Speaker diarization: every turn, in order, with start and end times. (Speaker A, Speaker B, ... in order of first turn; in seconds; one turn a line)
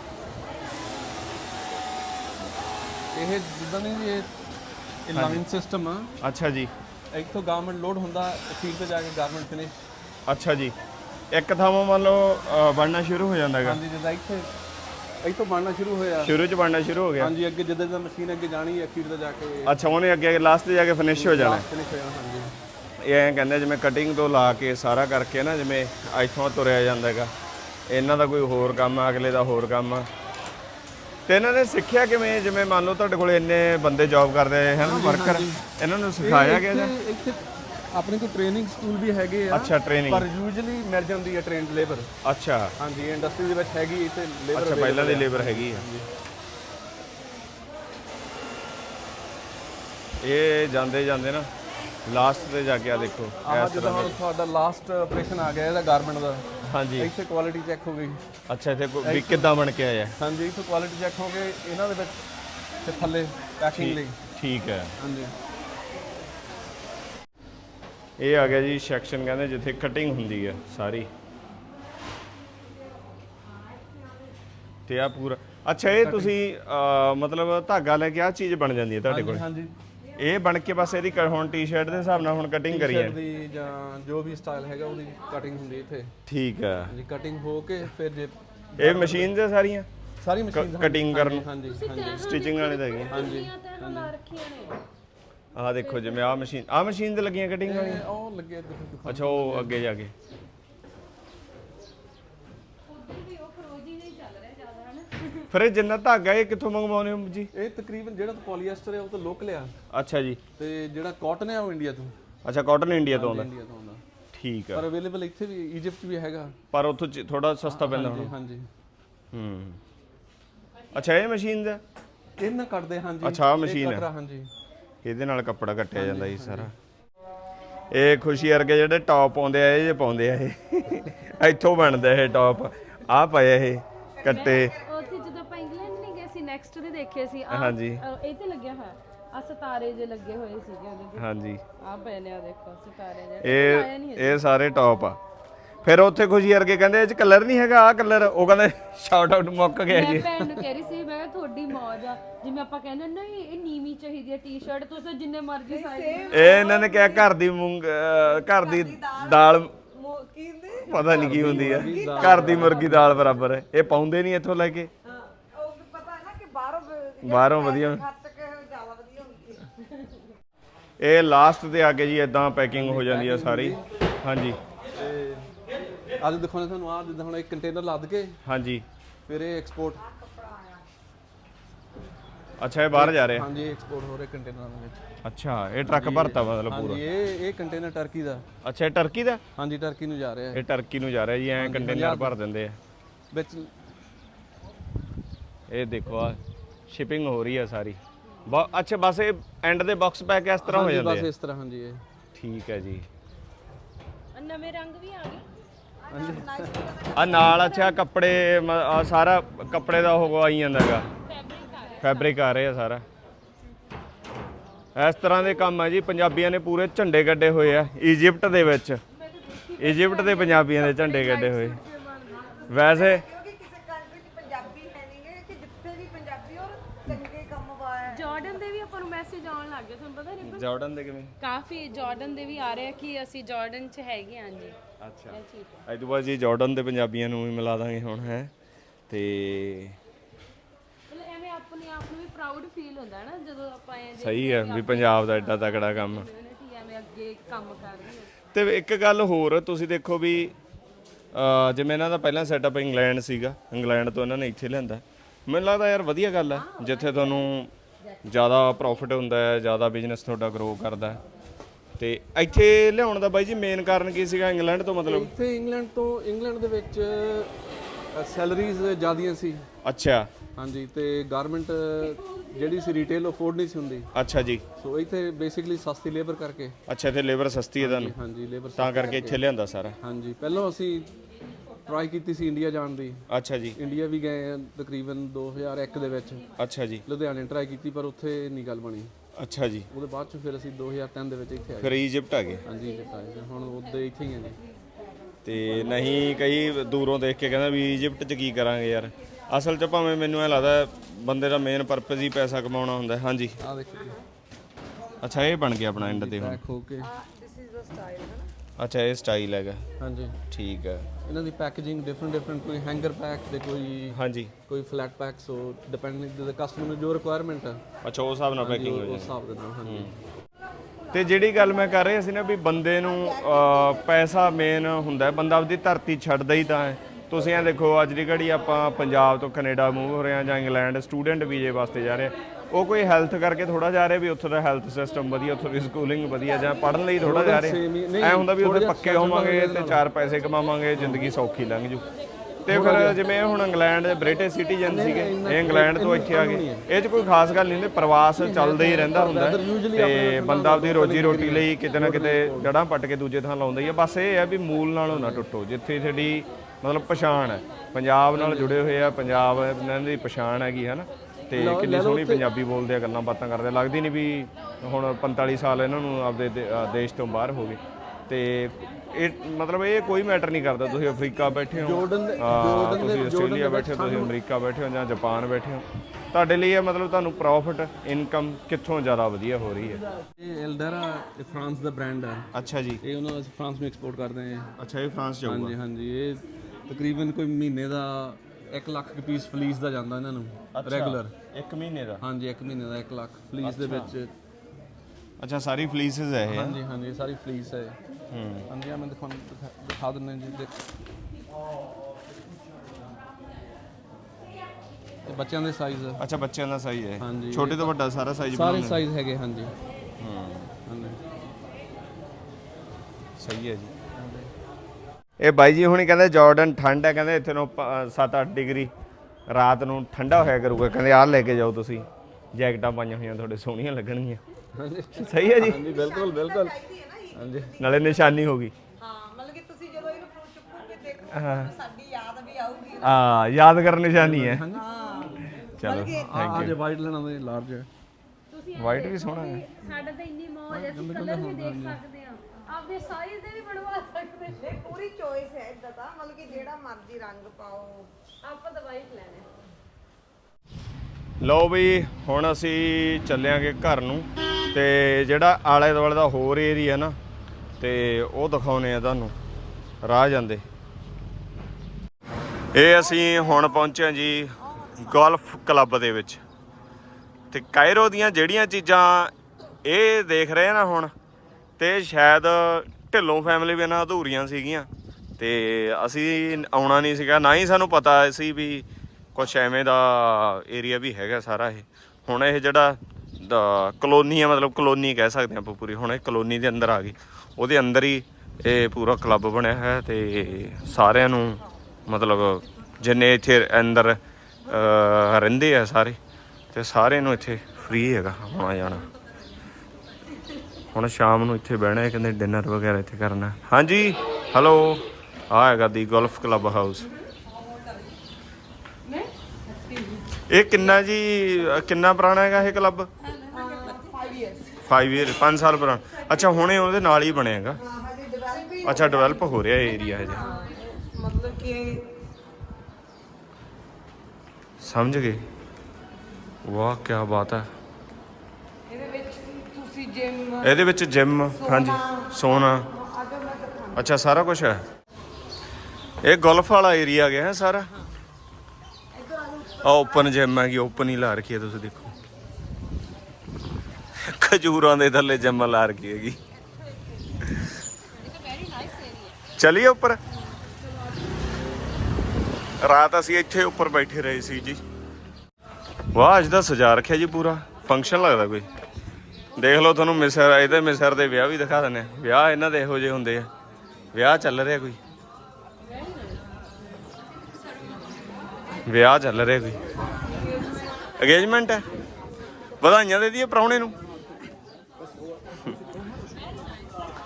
Speaker A: 3.1-4.3
Speaker A: 5.0-6.1
Speaker B: 5.1-5.4
Speaker B: 6.2-6.7
Speaker A: 7.1-9.8
Speaker B: 10.3-10.7
Speaker B: 11.3-13.8
Speaker A: 13.6-14.5
Speaker A: 15.2-16.4
Speaker B: 16.2-17.3
Speaker A: 17.2-19.8
Speaker B: 19.6-21.6
Speaker A: 21.1-22.5
Speaker B: 23.0-27.3
Speaker B: 27.9-30.1
Speaker B: 31.3-36.9
Speaker A: 34.8-35.6
Speaker A: 36.2-42.1
Speaker B: 39.5-40.3
Speaker B: 42.2-42.7
Speaker A: 42.8-46.1
Speaker B: 44.5-45.9
Speaker B: 50.2-51.5
Speaker B: 52.0-54.2
Speaker A: 53.4-56.5
Speaker B: 56.7-57.1
Speaker A: 57.0-58.2
Speaker B: 58.5-60.1
Speaker A: 59.0-59.5
Speaker A: 60.2-62.2
Speaker A: 62.8-64.2
Speaker B: 63.7-64.9
Speaker A: 65.0-65.3
Speaker B: 68.2-71.1
Speaker B: 74.9-79.4
Speaker A: 75.9-76.3
Speaker A: 79.1-79.7
Speaker B: 80.2-83.2
Speaker A: 82.7-86.1
Speaker B: 86.3-87.0
Speaker A: 86.9-89.3
Speaker B: 88.8-89.9
Speaker A: 90.2-92.3
Speaker B: 90.5-91.5
Speaker C: 91.6-94.8
Speaker B: 92.1-93.2
Speaker A: 93.1-94.1
Speaker B: 95.5-98.0
Speaker C: 95.8-96.4
Speaker A: 97.6-99.8
Speaker B: 99.0-100.1
Speaker C: 102.9-105.5
Speaker B: 105.5-107.5
Speaker A: 107.5-109.7
Speaker B: 109.9-110.4
Speaker A: 110.6-112.1
Speaker B: 112.4-113.5
Speaker A: 113.1-114.0
Speaker B: 114.3-114.9
Speaker A: 114.7-116.5
Speaker B: 116.7-118.3
Speaker A: 117.6-118.7
Speaker B: 119.3-119.8
Speaker B: 120.9-121.8
Speaker A: 122.4-124.5
Speaker B: 123.2-124.1
Speaker B: 125.0-126.7
Speaker A: 125.9-126.7
Speaker B: 127.9-134.7
Speaker D: 134.2-135.1
Speaker C: 134.2-141.2
Speaker B: 137.5-138.0
Speaker B: 141.2-141.6
Speaker C: 141.8-144.4
Speaker B: 143.4-145.2
Speaker B: 145.8-150.3
Speaker C: 149.9-156.5
Speaker D: 155.7-157.3
Speaker B: 156.3-159.7
Speaker D: 158.4-163.1
Speaker B: 160.9-164.9
Speaker A: 160.9-163.4
Speaker D: 165.1-169.8
Speaker B: 167.2-168.0
Speaker B: 171.0-174.6
Speaker A: 172.7-173.8
Speaker A: 174.9-175.5
Speaker A: 176.2-178.4
Speaker B: 178.4-178.8
Speaker A: 179.3-180.0
Speaker D: 180.0-180.8
Speaker B: 182.6-183.4
Speaker A: 182.9-185.0
Speaker B: 185.2-187.0
Speaker A: 185.8-188.4
Speaker B: 188.6-189.4
Speaker A: 189.5-190.6
Speaker B: 190.5-192.8
Speaker A: 191.6-192.4
Speaker A: 193.3-193.7
Speaker B: 195.7-201.3
Speaker A: 200.6-202.0
Speaker B: 202.3-203.1
Speaker C: 204.3-205.4
Speaker D: 206.1-207.5
Speaker A: 206.1-206.9
Speaker B: 207.1-211.1
Speaker C: 207.3-208.0
Speaker C: 211.2-212.4
Speaker B: 212.0-213.0
Speaker B: 214.9-219.0
Speaker C: 219.2-222.7
Speaker B: 219.8-221.8
Speaker D: 222.6-228.6
Speaker B: 222.7-223.2
Speaker C: 228.1-230.7
Speaker B: 230.4-231.3
Speaker C: 231.4-234.8
Speaker B: 235.0-238.5
Speaker C: 235.3-235.8
Speaker B: 239.1-240.0
Speaker C: 241.1-248.3
Speaker B: 244.2-246.3
Speaker B: 248.5-250.5
Speaker B: 251.3-257.7
Speaker C: 256.5-257.5
Speaker B: 258.2-261.2
Speaker B: 262.0-265.3
Speaker A: 265.0-267.5
Speaker A: 268.1-269.6
Speaker B: 269.8-270.3
Speaker A: 270.6-274.1
Speaker B: 274.1-274.6
Speaker A: 274.8-276.8
Speaker B: 276.9-278.1
Speaker A: 277.8-279.4
Speaker B: 278.8-279.9
Speaker A: 280.0-281.1
Speaker A: 281.8-286.4
Speaker B: 283.3-283.8
Speaker B: 286.6-287.0
Speaker A: 287.1-289.1
Speaker B: 289.4-289.9
Speaker A: 289.9-292.0
Speaker B: 291.8-292.6
Speaker A: 292.6-294.6
Speaker B: 295.4-303.6
Speaker A: 303.6-304.2
Speaker B: 305.2-306.6
Speaker A: 306.0-307.1
Speaker D: 307.0-308.5
Speaker B: 308.8-309.8
Speaker A: 310.0-310.4
Speaker B: 310.5-311.1
Speaker A: 311.2-317.8
Speaker B: 314.1-314.5
Speaker B: 318.0-320.1
Speaker A: 318.6-320.1
Speaker B: 321.1-342.0
Speaker D: 323.7-324.0
Speaker A: 337.2-340.0
Speaker A: 340.9-341.3
Speaker B: 342.6-380.0
Speaker A: 342.7-343.2
Speaker A: 344.8-346.9
Speaker A: 348.4-352.7
Speaker A: 355.1-355.4
Speaker A: 358.3-358.8
Speaker A: 361.5-362.5
Speaker A: 371.7-374.3
Speaker A: 380.4-382.5
Speaker B: 382.5-383.0
Speaker A: 383.0-384.7
Speaker B: 384.8-385.8
Speaker A: 385.4-391.3
Speaker B: 390.7-392.2
Speaker A: 392.2-394.3
Speaker B: 393.6-394.1
Speaker B: 395.4-396.8
Speaker A: 396.4-398.0
Speaker B: 398.3-398.7
Speaker A: 398.7-400.8
Speaker A: 405.2-406.2
Speaker B: 406.2-409.0
Speaker A: 407.2-407.9
Speaker A: 408.5-409.7
Speaker B: 410.2-410.7
Speaker A: 410.9-411.2
Speaker B: 413.4-413.9
Speaker A: 414.1-414.5
Speaker B: 415.4-418.9
Speaker B: 419.5-424.4
Speaker A: 424.7-426.7
Speaker B: 425.2-425.9
Speaker D: 425.6-428.4
Speaker A: 427.3-427.7
Speaker B: 427.8-428.7
Speaker D: 429.0-433.2
Speaker B: 431.3-431.7
Speaker B: 433.0-434.6
Speaker A: 434.1-434.8
Speaker D: 434.7-436.4
Speaker B: 435.6-436.8
Speaker A: 436.1-437.9
Speaker C: 438.5-444.6
Speaker B: 438.8-439.6
Speaker A: 440.7-442.0
Speaker D: 444.5-448.1
Speaker C: 448.4-449.5
Speaker B: 451.4-457.1
Speaker B: 457.8-459.3
Speaker B: 460.0-460.6
Speaker B: 462.7-466.4
Speaker B: 467.5-469.3
Speaker B: 469.8-471.1
Speaker B: 471.8-496.2
Speaker B: 496.7-499.1
Speaker B: 500.9-507.1
Speaker C: 509.0-510.3
Speaker B: 510.5-513.1
Speaker D: 513.5-514.8
Speaker B: 514.8-517.8
Speaker D: 517.8-519.7
Speaker B: 518.8-520.5
Speaker C: 520.1-520.6
Speaker D: 520.2-522.0
Speaker B: 524.8-525.4
Speaker B: 526.6-527.7
Speaker D: 528.9-530.8
Speaker B: 530.6-532.9
Speaker D: 531.5-534.1
Speaker B: 533.9-534.8
Speaker B: 536.2-537.9
Speaker D: 539.1-540.3
Speaker B: 539.8-542.1
Speaker B: 544.2-546.4
Speaker C: 548.1-549.4
Speaker B: 549.6-550.2
Speaker B: 552.8-554.8
Speaker B: 556.1-558.7
Speaker B: 559.5-563.5
Speaker B: 564.1-565.0
Speaker C: 565.9-566.4
Speaker B: 568.9-569.8
Speaker B: 571.2-571.8
Speaker B: 572.8-573.9